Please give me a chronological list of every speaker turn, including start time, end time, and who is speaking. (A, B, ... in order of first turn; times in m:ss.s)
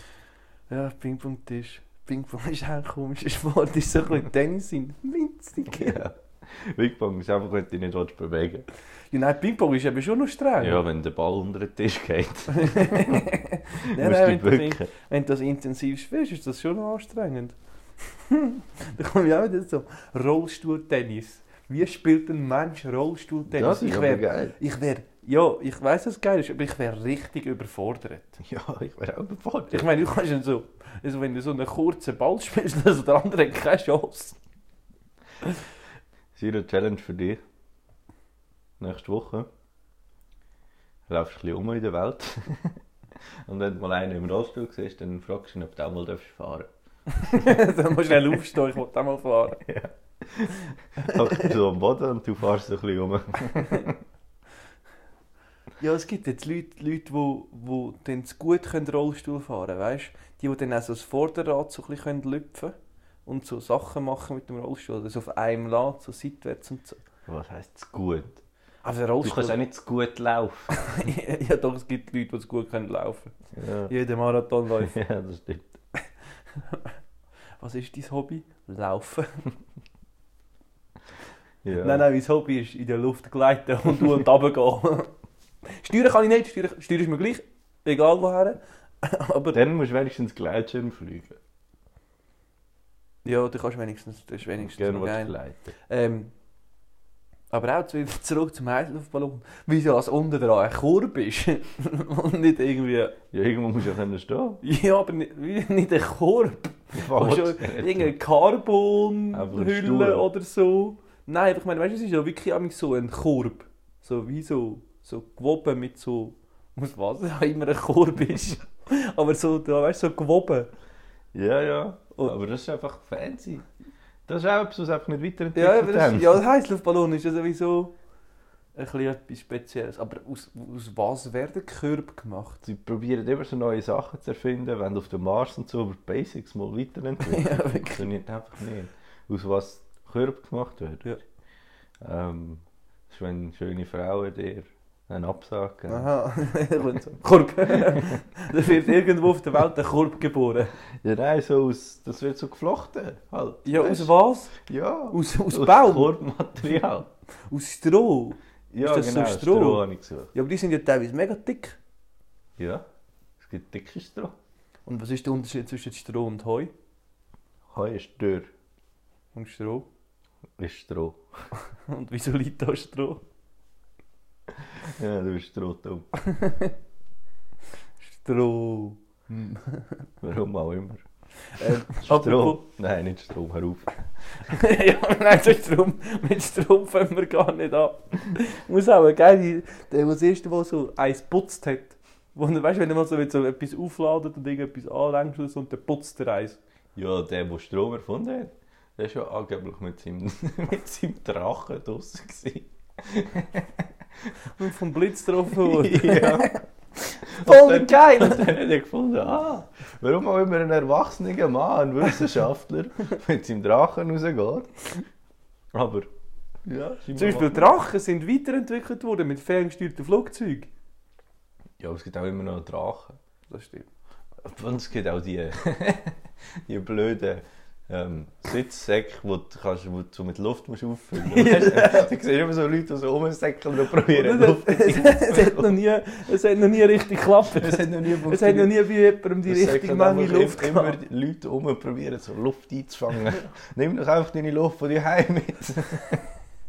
0:00.7-0:06.0 A
0:05.7-0:08.6 B
0:09.1-0:10.8 A
0:10.6-0:13.3 B
0:12.5-0:28.4 A
0:13.9-0:14.9 B
0:23.5-0:24.5 B
0:28.4-0:29.9 B
0:29.7-0:34.4 A
0:36.3-0:37.4 B
0:38.8-0:39.5 B
0:41.1-0:42.8 B
0:43.4-0:46.7 B
0:47.1-0:49.6 A
0:49.6-0:54.0 B
0:51.0-0:51.5 A
0:53.6-0:53.9 A
0:55.8-1:02.7 A
1:03.2-1:07.0 A
1:07.3-1:08.4 B
1:08.8-1:09.6 A
1:09.2-1:10.8 B
1:10.7-1:13.3 A
1:13.6-1:13.9 B
1:13.9-1:14.9 A
1:14.8-1:15.7 B
1:16.6-1:16.9 A
1:17.6-1:19.4 A
1:21.6-1:22.0 B
1:21.8-1:25.1 A
1:25.6-1:29.6 A
1:29.5-1:31.4 B
1:33.2-1:35.3 A
1:34.6-1:35.7 B
1:35.9-1:36.3 A
1:37.5-1:43.2 A
1:43.3-1:44.6 B
1:44.6-2:00.7 A
1:47.0-1:48.1 B
1:49.3-1:50.3 B
2:01.3-2:03.6 B
2:04.3-2:06.4 B
2:05.5-2:07.9 A
2:08.7-2:12.6 A
2:12.6-2:21.1 B
2:17.2-2:18.1 A
2:22.0-2:26.1 B
2:25.9-2:30.7 A
2:31.0-2:37.1 B
2:33.6-2:34.6 A
2:35.1-2:36.1 A
2:37.5-2:41.8 A
2:38.7-2:40.3 B
2:42.6-2:42.8 B
2:43.4-2:44.3 B
2:44.9-2:46.7 A
2:47.7-2:48.5 B
2:49.3-2:49.8 A
2:50.6-2:51.2 B
2:51.6-2:53.2 A
2:54.7-2:56.1 B
2:56.2-2:56.7 A
2:58.0-3:00.0 A
3:00.2-3:01.0 B
3:01.5-3:02.6 A
3:01.6-3:04.1 B
3:04.4-3:16.6 A
3:16.9-3:24.3 B
3:24.5-3:28.5 A
3:25.5-3:26.6 B
3:27.2-3:34.8 B
3:35.7-3:36.1 B
3:36.7-3:40.7 A
3:36.9-3:37.7 B
3:41.8-3:43.2 B
3:43.5-3:43.9 A
3:44.4-3:55.8 B
3:51.2-3:52.1 A
3:54.1-4:01.0 A
3:57.4-3:58.7 B
3:59.4-4:06.3 B